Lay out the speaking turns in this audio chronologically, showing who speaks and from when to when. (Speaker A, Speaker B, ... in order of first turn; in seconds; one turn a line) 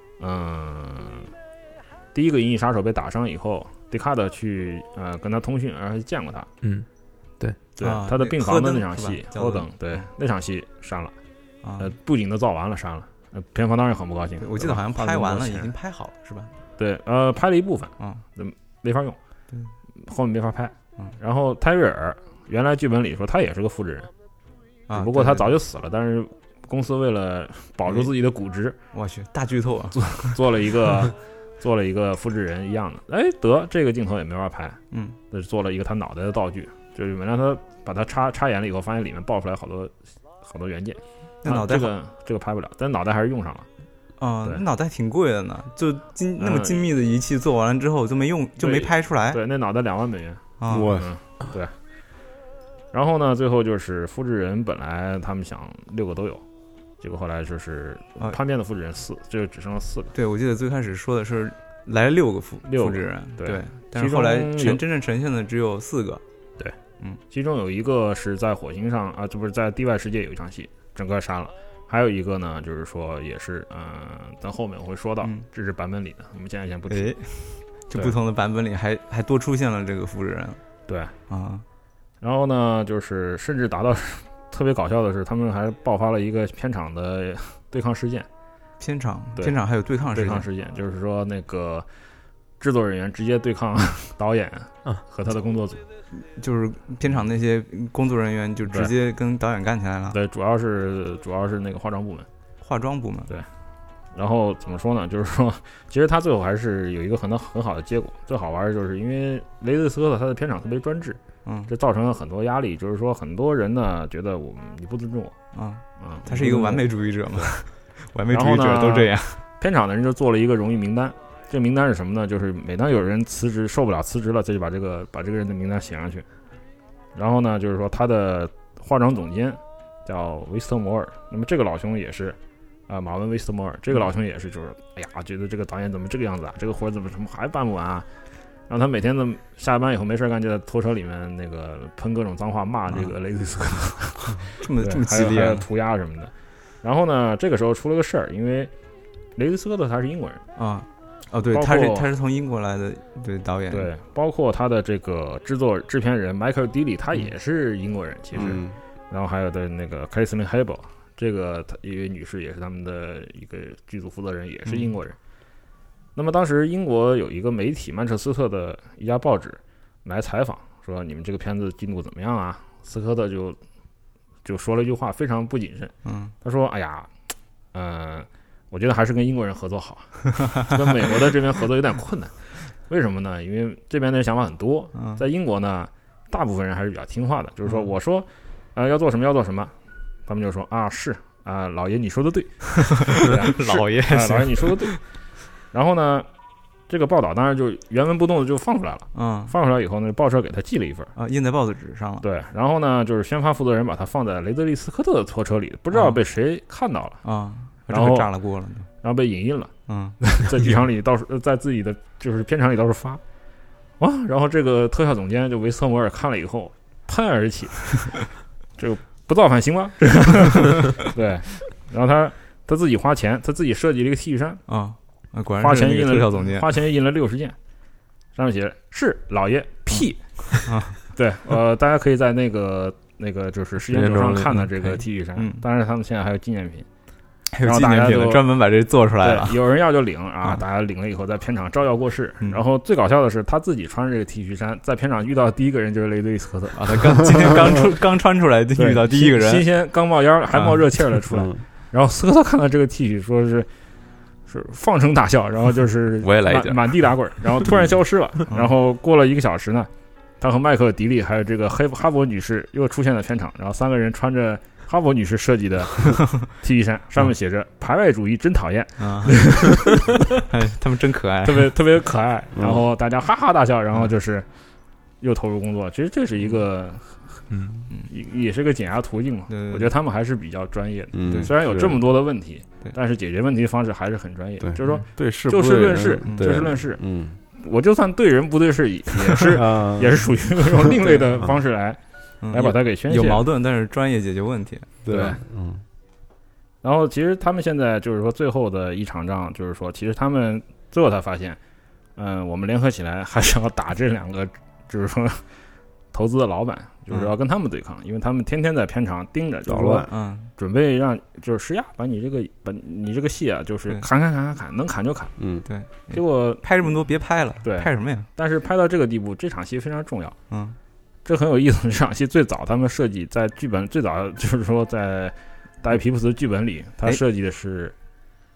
Speaker A: 0.2-1.3
Speaker A: 2.1-6.5
Speaker B: 6.6-6.9
Speaker A: 7.8-11.1
Speaker C: 7.8-10.0
Speaker C: 11.6-11.9
Speaker A: 11.8-15.7
Speaker C: 14.4-16.5
Speaker A: 16.8-19.2
Speaker A: 20.0-24.1
Speaker C: 24.9-25.6
Speaker A: 24.9-28.8
Speaker C: 28.9-30.4
Speaker A: 29.9-43.7
Speaker C: 34.9-35.2
Speaker C: 41.4-41.9
Speaker C: 44.2-49.4
Speaker A: 46.4-46.9
Speaker A: 48.6-51.8
Speaker C: 50.6-51.0
Speaker D: 50.7-51.1
Speaker A: 52.9-56.4
Speaker A: 57.0-60.1
Speaker C: 60.1-66.2
Speaker A: 62.6-64.8
Speaker A: 67.3-77.2
Speaker C: 76.9-80.6
Speaker A: 80.9-81.1
Speaker C: 81.3-81.6
Speaker A: 82.2-88.3
Speaker C: 88.8-90.5
Speaker A: 89.4-91.9
Speaker A: 92.6-95.8
Speaker C: 96.1-100.2
Speaker A: 100.1-102.3
Speaker C: 102.6-103.3
Speaker A: 104.1-115.4
Speaker C: 111.5-111.7
Speaker C: 115.5-119.4
Speaker A: 116.0-117.5
Speaker A: 118.3-126.3
Speaker A: 127.2-132.4
Speaker A: 132.9-138.1
Speaker A: 138.7-148.7
Speaker C: 144.6-145.7
Speaker A: 149.3-150.4
Speaker C: 150.6-153.9
Speaker A: 151.5-152.1
Speaker A: 153.7-165.2
Speaker D: 158.3-158.8
Speaker A: 166.2-173.6
Speaker A: 174.4-177.1
Speaker C: 176.1-176.3
Speaker A: 177.7-196.3
Speaker C: 184.9-185.2
Speaker C: 193.0-195.0
Speaker A: 196.9-201.1
Speaker C: 199.1-199.5
Speaker C: 201.2-202.2
Speaker A: 202.2-207.2
Speaker C: 205.9-206.2
Speaker C: 207.2-208.9
Speaker A: 207.9-208.3
Speaker A: 209.0-213.2
Speaker C: 209.9-210.2
Speaker A: 214.0-224.6
Speaker C: 224.7-226.7
Speaker A: 225.6-227.6
Speaker A: 228.3-236.9
Speaker C: 229.9-231.0
Speaker B: 233.9-235.0
Speaker C: 235.4-235.6
Speaker C: 237.5-239.6
Speaker A: 237.6-238.5
Speaker A: 239.2-247.4
Speaker C: 246.8-249.7
Speaker A: 248.8-253.7
Speaker D: 251.3-251.6
Speaker A: 254.5-270.0
Speaker B: 256.2-257.1
Speaker C: 269.0-271.7
Speaker A: 271.5-274.5
Speaker D: 272.6-272.8
Speaker A: 275.2-277.5
Speaker B: 277.5-277.9
Speaker A: 278.1-287.0
Speaker C: 279.5-279.9
Speaker D: 281.1-282.0
Speaker D: 284.6-287.4
Speaker C: 286.3-286.6
Speaker A: 287.5-293.4
Speaker D: 289.4-290.3
Speaker C: 292.4-294.9
Speaker D: 295.0-295.8
Speaker A: 295.1-295.4
Speaker A: 296.8-301.6
Speaker A: 302.2-305.5
Speaker A: 306.1-315.4
Speaker D: 309.7-310.1
Speaker C: 310.1-310.5
Speaker D: 315.4-315.7
Speaker C: 315.7-318.3
Speaker A: 316.1-316.6
Speaker A: 317.6-320.4
Speaker C: 320.5-320.8
Speaker A: 321.2-327.9